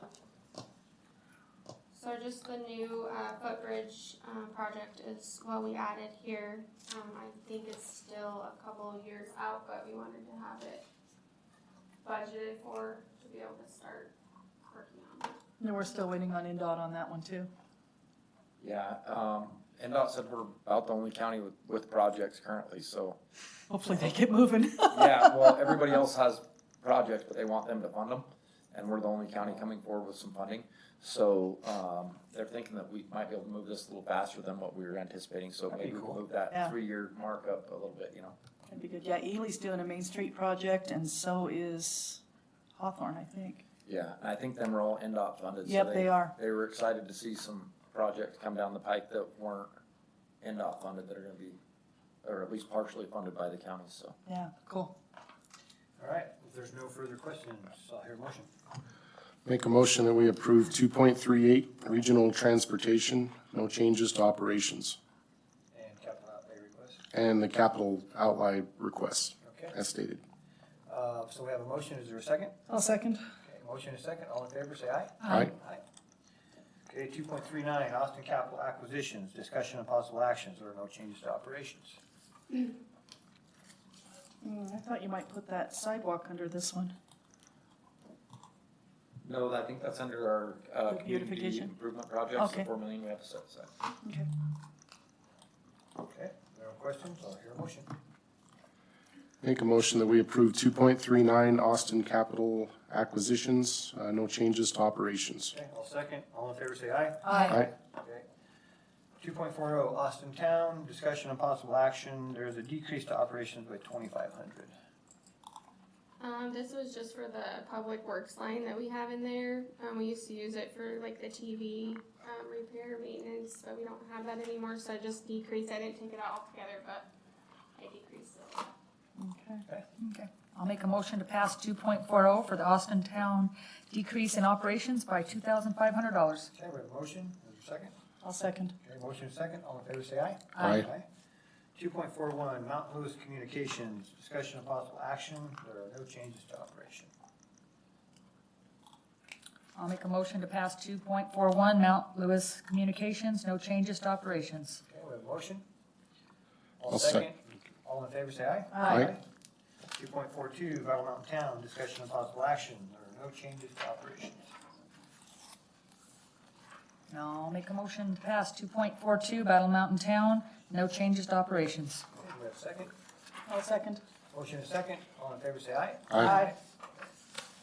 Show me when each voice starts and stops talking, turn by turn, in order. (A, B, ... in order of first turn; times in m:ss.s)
0:01.9-0:10.9 A
0:12.0-0:14.1 A
0:14.7-0:15.4 A
0:15.6-0:17.5 B
0:18.6-0:23.2 C
0:23.7-0:25.7 B
0:23.9-0:24.2 C
0:24.9-0:38.4 C
0:35.8-0:36.2 D
0:38.7-0:42.2 B
0:42.8-0:43.6 B
0:43.9-0:49.8 C
0:45.7-0:46.3 B
0:50.4-0:51.6 C
0:52.2-0:54.2 C
0:54.3-0:54.9 B
0:56.0-0:58.5 D
0:59.4-1:05.0 E
1:05.7-1:07.0 D
1:07.1-1:10.2 E
1:09.4-1:09.7 D
1:10.9-1:12.6 D
1:12.7-1:13.2 B
1:13.4-1:15.8 D
1:15.2-1:15.5 F
1:16.9-1:22.0 D
1:24.4-1:27.0 B
1:29.2-1:33.7 C
1:30.9-1:31.7 B
1:32.4-1:32.7 B
1:36.0-1:37.9 D
1:39.4-1:45.5 E
1:45.5-1:48.2 D
1:49.2-1:54.7 D
1:56.2-2:07.1 A
2:07.8-2:08.7 A
2:10.0-2:16.5 F
2:16.5-2:17.9 D
2:18.2-2:18.7 B
2:18.8-2:21.0 D
2:20.6-2:20.8 F
2:21.8-2:27.1 D
2:29.8-2:34.8 F
2:34.9-2:35.6 D
2:36.8-2:39.2 D
2:36.9-2:37.2 E
2:38.8-2:39.1 E
2:39.9-2:44.5 D
2:47.1-2:52.1 F
2:52.2-2:52.9 D
2:53.5-2:54.0 B
2:54.3-2:56.6 D
2:56.1-2:56.4 E